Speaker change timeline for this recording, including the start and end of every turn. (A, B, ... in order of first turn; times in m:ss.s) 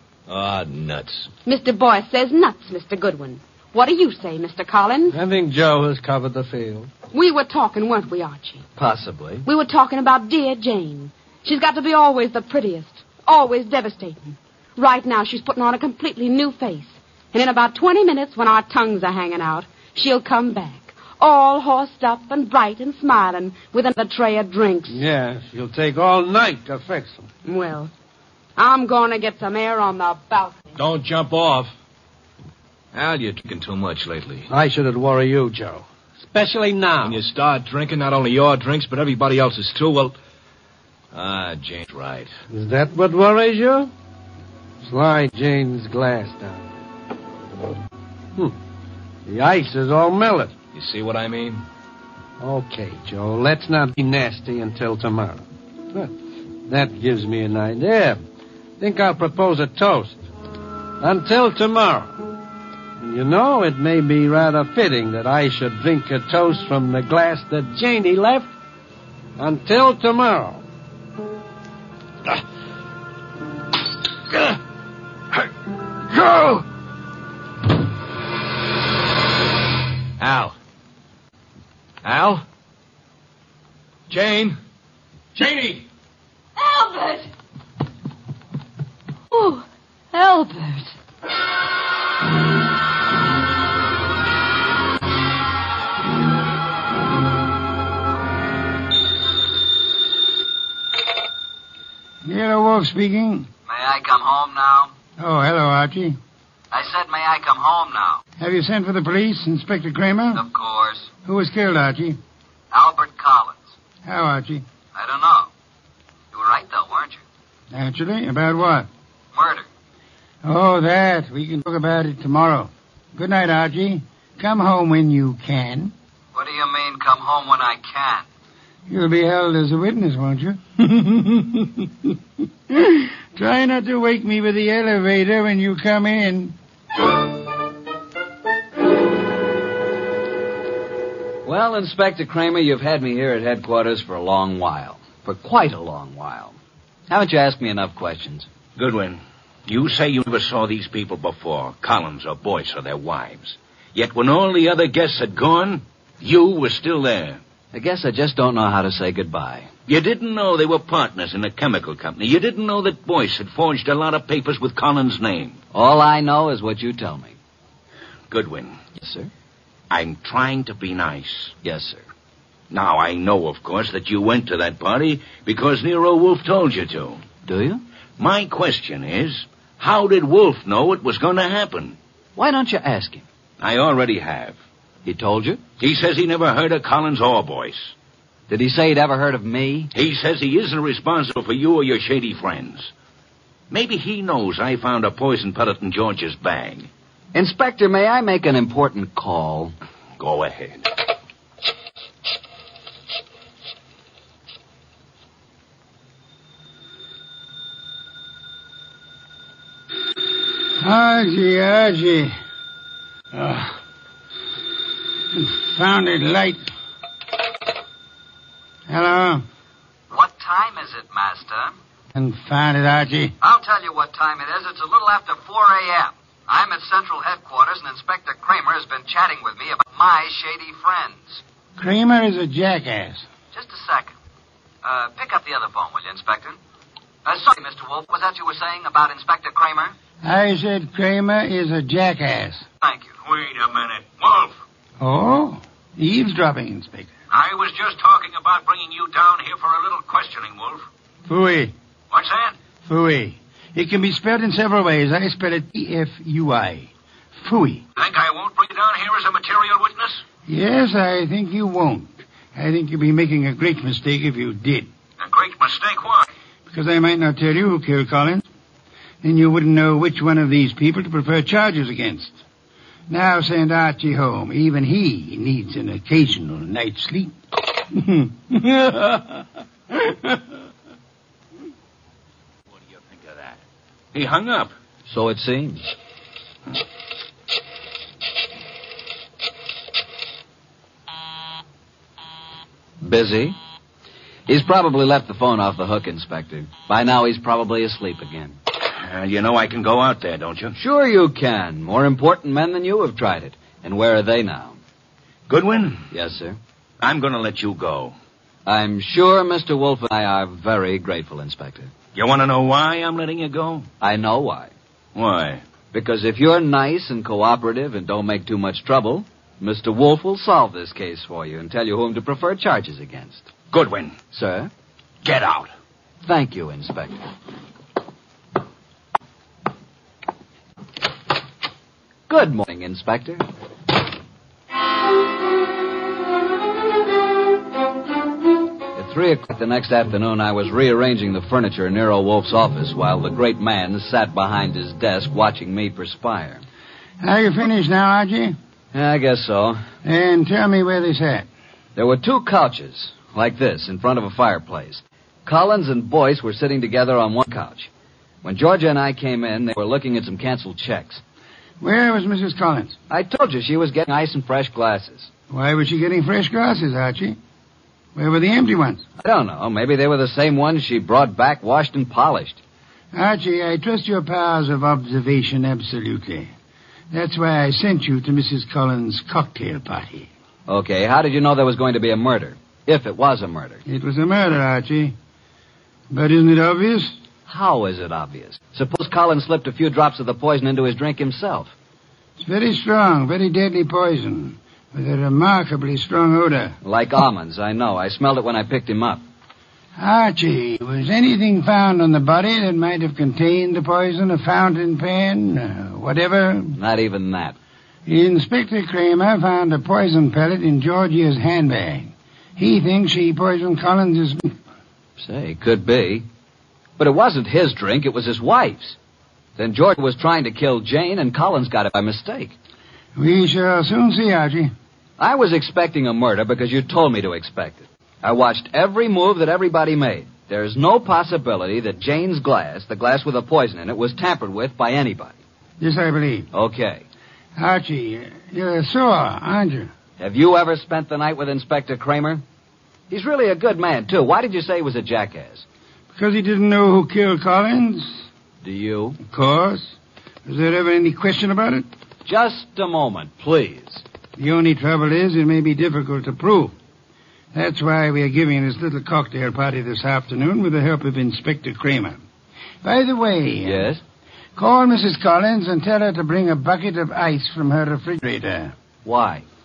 0:00.3-0:01.3 A
0:01.5-0:05.2 B
0:05.1-0:06.9 C
0:07.1-0:08.6 B
0:08.8-0:09.5 D
0:09.5-0:25.0 B
0:24.9-0:27.3 C
0:27.4-0:27.9 B
0:28.6-0:30.7 B
0:30.8-0:31.7 A
0:32.9-0:34.5 A
0:34.5-0:37.2 C
0:37.0-0:40.2 A
0:41.1-0:42.3 A
0:42.5-0:43.9 C
0:44.8-0:46.7 C
0:49.3-0:50.5 C
0:50.7-0:51.6 A
0:52.4-0:56.1 C
0:56.7-0:58.2 C
0:58.8-1:00.2 C
1:01.0-1:02.2 C
1:03.0-1:08.5 C
1:09.4-1:10.6 C
1:16.2-1:16.6 A
1:20.2-1:20.6 A
1:22.0-1:22.4 A
1:24.1-1:24.6 A
1:25.4-1:25.8 A
1:26.6-1:27.3 E
1:29.3-1:30.9 E
1:42.2-1:43.5 F
1:43.7-1:44.9 D
1:45.2-1:46.2 F
1:46.7-1:48.2 D
1:48.4-1:50.4 F
1:50.3-1:51.1 D
1:51.2-1:52.2 F
1:52.7-1:53.6 D
1:54.0-1:54.6 F
1:55.0-1:55.5 D
1:56.3-1:57.2 D
1:57.7-1:58.9 F
1:59.3-1:59.7 D
2:00.4-2:05.9 F
2:06.3-2:08.3 D
2:08.9-2:12.1 F
2:12.7-2:16.6 F
2:21.4-2:26.6 D
2:27.1-2:28.5 D
2:28.8-2:37.4 G
2:37.7-2:39.7 D
2:39.9-2:45.6 G
2:45.7-2:47.4 D
2:48.3-2:48.8 G
2:49.0-2:49.3 D
2:49.9-2:51.6 G
2:51.6-2:52.0 D
2:52.7-2:57.2 G
2:57.4-2:57.8 D
2:58.2-3:02.0 G
3:02.4-3:03.2 D
3:03.6-3:04.6 G
3:05.1-3:05.6 D
3:05.8-3:07.9 G
3:08.5-3:09.9 D
3:09.9-3:12.9 G
3:13.7-3:16.9 G
3:17.3-3:19.7 D
3:20.2-3:20.9 G
3:30.8-3:32.4 F
3:33.3-3:33.8 F
3:35.3-3:36.7 F
3:38.9-3:39.4 F
3:40.1-3:41.8 D
3:42.1-3:43.4 F
3:43.4-3:51.4 D
3:51.8-3:53.3 F
3:53.5-3:54.2 D
3:54.8-3:56.6 D
3:57.2-3:59.9 D
4:00.2-4:02.6 F
4:02.8-4:03.1 D
4:03.2-4:04.5 G
4:05.0-4:07.1 F
4:07.3-4:10.8 G
4:11.3-4:11.7 F
4:12.1-4:12.5 G
4:12.8-4:17.9 F
4:18.0-4:20.2 G
4:20.5-4:24.9 F
4:25.2-4:26.3 G
4:26.7-4:28.5 F
4:29.2-4:32.4 F
4:33.1-4:40.4 F
4:42.7-4:43.6 G
4:44.1-4:44.7 G
4:45.1-4:45.9 D
4:53.0-4:53.6 D
4:54.5-4:58.6 D
4:58.9-5:00.8 G
5:00.8-5:04.8 D
5:05.5-5:06.1 G
5:06.1-5:06.6 D
5:07.0-5:08.2 G
5:08.7-5:11.9 D
5:12.1-5:13.9 G
5:14.0-5:14.7 D
5:15.2-5:15.6 G
5:15.9-5:23.5 D
5:23.7-5:24.2 G
5:24.3-5:24.7 D
5:25.2-5:25.7 G
5:26.2-5:27.2 D
5:32.3-5:33.4 D
5:38.9-5:46.6 D
5:47.2-5:48.6 F
5:48.9-5:49.8 D
5:50.0-5:51.5 F
5:52.0-5:57.9 D
5:58.4-6:01.2 D
6:01.8-6:03.0 F
6:03.1-6:05.3 D
6:05.5-6:07.4 F
6:08.2-6:09.0 F
6:09.2-6:12.6 D
6:13.1-6:16.5 F
6:17.1-6:20.3 F
6:20.7-6:23.8 D
6:23.9-6:25.2 F
6:26.1-6:27.2 F
6:27.5-6:31.7 D
6:32.4-6:36.8 F
6:36.8-6:39.2 D
6:40.0-6:46.8 F
6:46.8-6:47.6 D
6:48.1-6:54.6 F
6:55.2-6:56.2 D
6:57.0-6:59.0 D
6:59.6-7:02.6 D
7:03.2-7:04.7 F
7:05.2-7:15.4 D
7:15.8-7:16.5 F
7:16.5-7:17.0 D
7:17.6-7:19.9 F
7:20.2-7:22.4 D
7:23.1-7:25.6 D
7:26.2-7:28.2 F
7:28.6-7:29.2 D
7:29.2-7:30.0 F
7:30.5-7:31.9 F
7:32.3-7:34.0 D
7:34.4-7:36.7 F
7:37.5-7:42.2 F
7:42.8-7:43.9 F
7:43.6-7:44.0 D
7:44.6-7:48.7 F
7:49.0-7:49.4 D